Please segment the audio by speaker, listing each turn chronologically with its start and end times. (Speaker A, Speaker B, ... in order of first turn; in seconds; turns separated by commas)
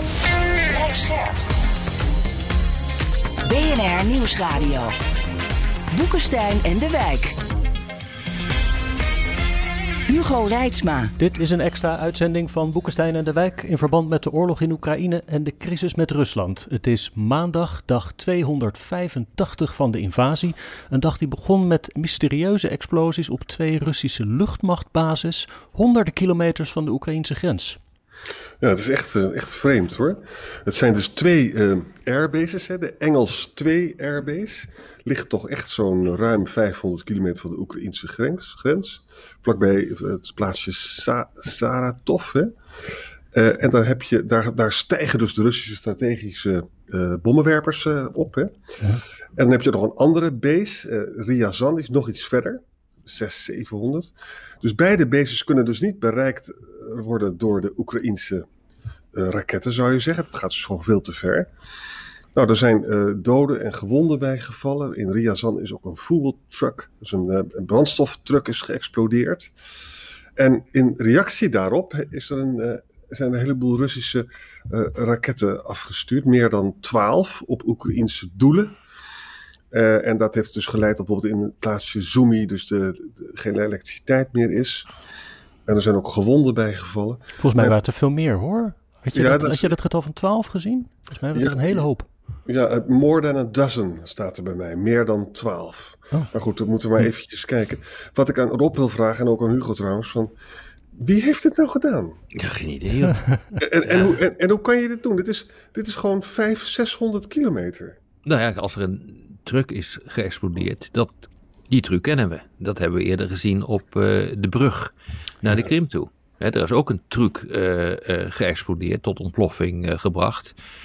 Speaker A: 0.7-1.4, Speaker A: 3.5-4.9, Speaker A: 5.9-7.4, Speaker A: 10.1-11.1, Speaker B: 11.2-27.8, Speaker C: 28.6-42.5, Speaker C: 43.3-48.5, Speaker C: 49.4-58.5, Speaker C: 59.1-61.5, Speaker C: 62.4-69.5, Speaker C: 70.4-78.8, Speaker C: 79.7-84.9, Speaker C: 85.7-87.8, Speaker B: 87.4-92.1, Speaker C: 89.1-89.8, Speaker C: 91.3-91.9, Speaker C: 92.5-100.3, Speaker C: 101.0-102.2, Speaker D: 102.4-103.3, Speaker C: 103.6-108.0, Speaker D: 103.8-104.2, Speaker D: 108.3-120.5